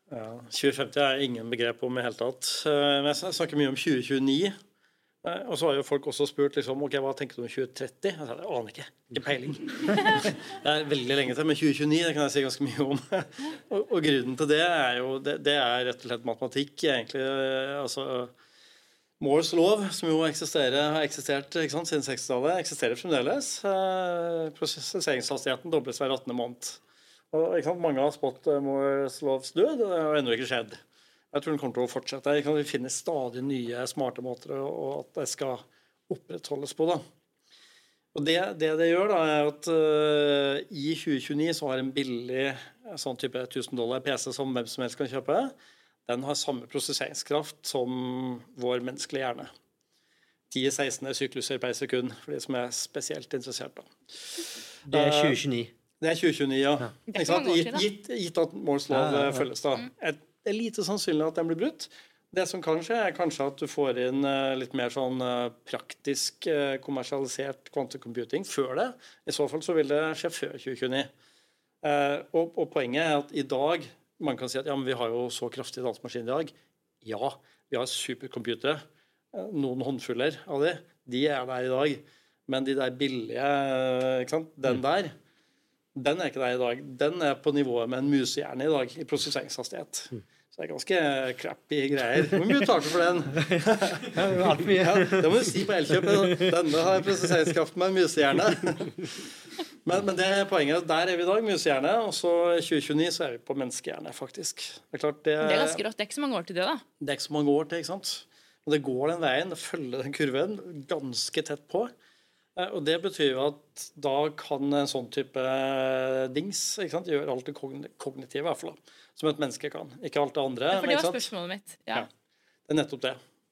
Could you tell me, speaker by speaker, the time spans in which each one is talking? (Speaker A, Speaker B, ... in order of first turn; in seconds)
Speaker A: 0.1-4.5, 5.2-18.3, 19.2-26.8, 27.3-30.8, 31.3-37.0, 38.1-45.5, 46.1-49.5, 50.5-55.4, 56.0-71.1, 71.8-85.1, 86.0-99.2, 99.8-105.8, 107.0-111.9, 112.5-121.3, 122.7-123.2
Speaker B: 54.9-55.7, 58.9-59.5, 94.0-96.5
Speaker C: 57.1-57.9, 105.4-106.8, 120.7-122.1